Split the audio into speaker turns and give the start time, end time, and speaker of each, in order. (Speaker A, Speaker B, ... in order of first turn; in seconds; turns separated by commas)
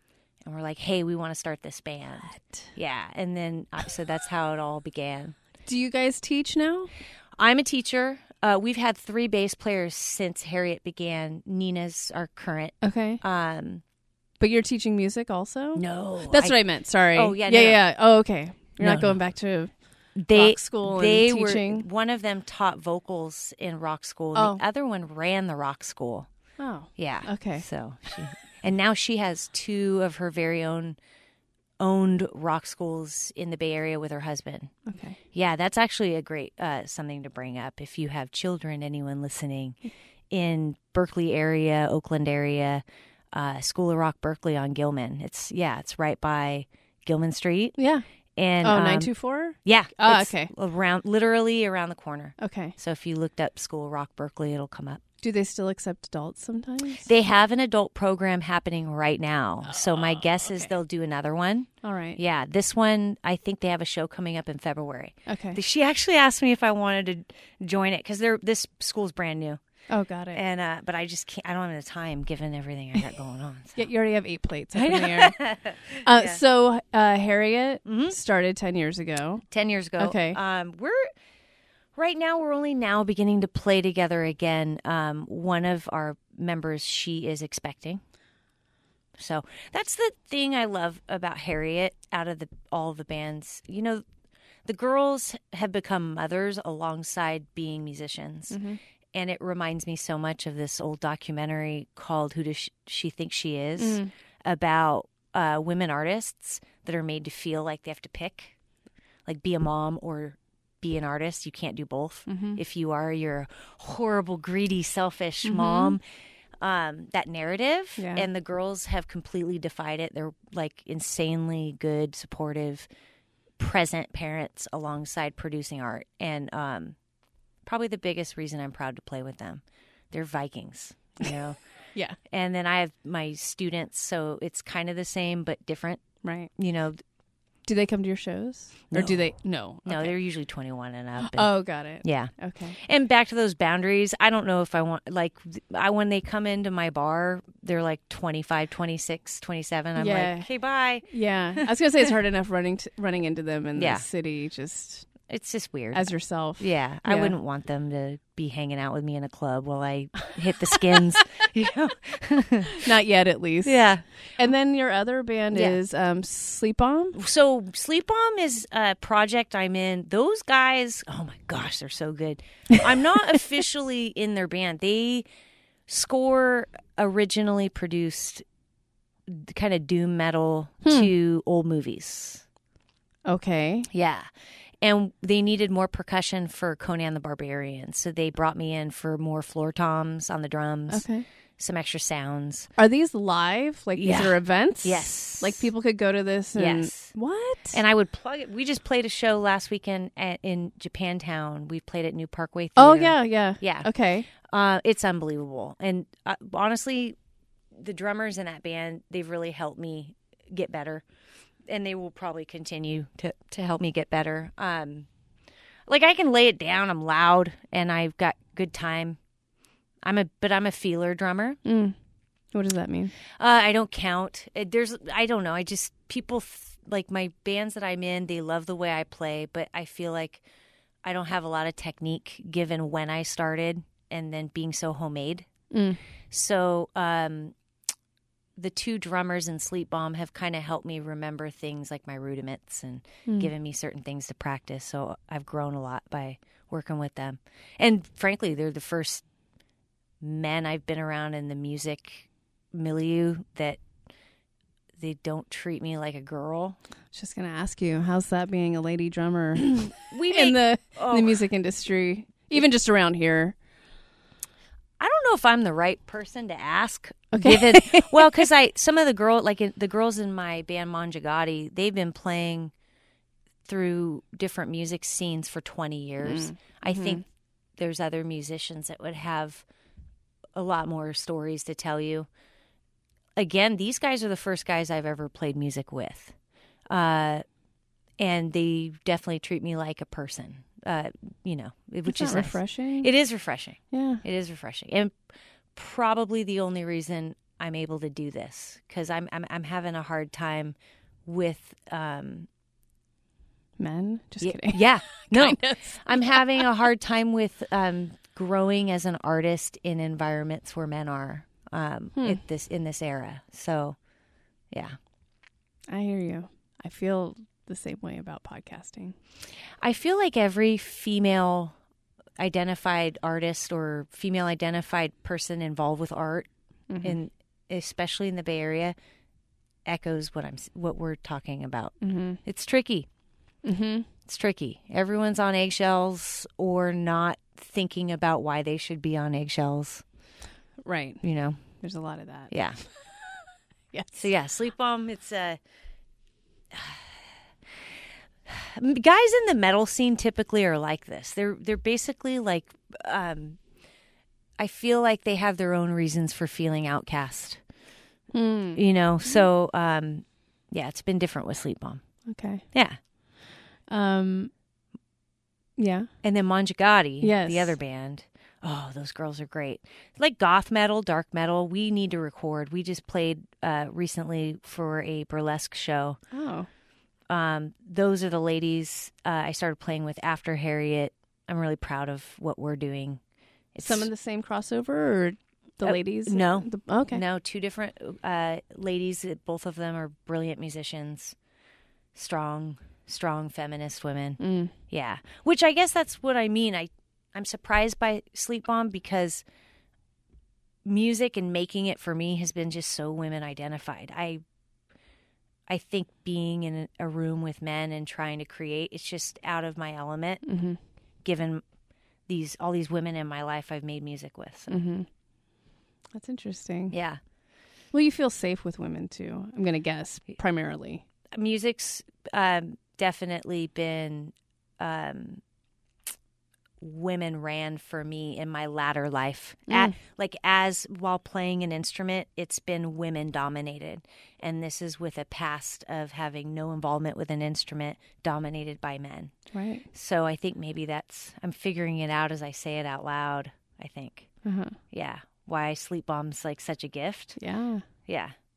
Speaker A: 0.4-5.4, Speaker B: 5.6-6.9, Speaker A: 7.4-13.8, Speaker B: 12.8-13.2, Speaker B: 14.4-21.9, Speaker A: 15.7-17.8, Speaker A: 18.8-19.2, Speaker A: 20.1-26.3, Speaker B: 24.3-24.6, Speaker B: 26.6-27.7, Speaker A: 26.9-31.0, Speaker A: 31.8-34.8, Speaker B: 34.9-35.2, Speaker A: 35.3-47.8, Speaker B: 47.8-48.1, Speaker A: 48.3-55.0, Speaker B: 48.6-50.5, Speaker B: 52.4-52.8, Speaker B: 55.2-57.1, Speaker A: 57.0-69.6, Speaker B: 59.6-60.7, Speaker B: 61.8-62.2, Speaker B: 65.2-65.6, Speaker B: 69.9-70.4, Speaker A: 70.3-73.9, Speaker B: 73.8-79.4, Speaker A: 74.7-76.4, Speaker A: 77.8-78.2, Speaker A: 79.5-81.1, Speaker B: 80.0-80.4, Speaker A: 81.9-88.0, Speaker A: 89.2-94.0, Speaker A: 94.6-108.6, Speaker B: 98.5-98.8, Speaker B: 103.8-104.1, Speaker A: 109.2-116.0, Speaker B: 112.3-112.6, Speaker B: 115.4-116.0, Speaker A: 116.6-122.9, Speaker B: 118.0-118.2, Speaker A: 123.6-127.0, Speaker A: 127.6-137.0, Speaker B: 136.2-136.5, Speaker B: 137.6-140.2, Speaker A: 138.9-151.1, Speaker B: 141.2-142.8, Speaker B: 149.9-155.2, Speaker A: 153.8-154.1, Speaker A: 155.3-162.8, Speaker B: 155.9-157.3, Speaker B: 162.8-167.2, Speaker A: 163.6-164.3, Speaker A: 165.5-165.8, Speaker A: 167.1-175.3, Speaker A: 175.9-178.4, Speaker A: 179.3-182.4, Speaker B: 180.8-181.1, Speaker B: 183.2-183.9, Speaker A: 183.9-184.3, Speaker A: 184.8-192.7, Speaker B: 190.9-191.2, Speaker B: 192.8-197.8, Speaker A: 193.9-195.7, Speaker A: 196.5-197.2, Speaker A: 197.7-207.2, Speaker B: 202.8-204.3, Speaker A: 207.7-211.0, Speaker A: 211.7-215.1, Speaker A: 215.9-219.2, Speaker A: 220.0-221.6, Speaker B: 221.6-221.9, Speaker B: 222.5-223.1, Speaker A: 223.3-230.4, Speaker A: 231.0-235.5, Speaker B: 235.7-236.0, Speaker A: 236.3-237.6, Speaker A: 238.6-249.3, Speaker B: 243.2-243.5, Speaker A: 250.2-253.8, Speaker A: 255.0-256.8, Speaker B: 257.1-263.6, Speaker A: 260.0-261.4, Speaker A: 265.0-272.7, Speaker B: 267.3-268.3, Speaker A: 273.6-279.6, Speaker B: 276.2-277.2, Speaker A: 280.5-282.3, Speaker A: 283.4-286.4, Speaker A: 286.9-287.4, Speaker A: 288.2-302.5, Speaker B: 292.1-293.1, Speaker B: 293.9-294.2, Speaker B: 303.8-306.7, Speaker A: 304.4-314.0, Speaker B: 312.1-312.4, Speaker A: 314.7-315.0, Speaker B: 315.9-319.1, Speaker A: 319.8-321.8, Speaker A: 322.4-328.9, Speaker B: 326.9-327.2, Speaker A: 329.8-333.1, Speaker B: 332.0-332.4, Speaker B: 333.6-334.1, Speaker A: 334.2-340.1, Speaker B: 340.8-343.3, Speaker A: 341.2-341.8, Speaker A: 342.5-342.8, Speaker B: 343.9-344.3, Speaker A: 344.1-345.6, Speaker A: 346.7-347.2, Speaker A: 348.4-353.6, Speaker A: 354.6-357.6, Speaker B: 358.3-359.4, Speaker A: 358.8-363.0, Speaker B: 362.2-362.6, Speaker B: 363.8-364.5, Speaker B: 365.8-366.1, Speaker A: 366.2-376.2, Speaker B: 367.2-367.8, Speaker B: 376.3-376.7, Speaker A: 377.3-384.1, Speaker B: 383.8-387.2, Speaker A: 385.8-391.4, Speaker A: 392.1-399.4, Speaker B: 394.4-394.7, Speaker A: 400.8-404.4, Speaker A: 405.7-410.6, Speaker B: 410.4-410.8, Speaker A: 411.2-411.6, Speaker A: 412.2-414.8, Speaker B: 414.7-415.1, Speaker B: 416.1-417.0, Speaker A: 416.9-417.2, Speaker B: 417.9-421.0, Speaker A: 421.3-425.4, Speaker A: 426.8-439.4, Speaker B: 429.7-429.9, Speaker B: 439.5-439.9, Speaker A: 439.9-447.4, Speaker B: 444.4-444.8, Speaker B: 447.4-447.9, Speaker A: 448.0-448.3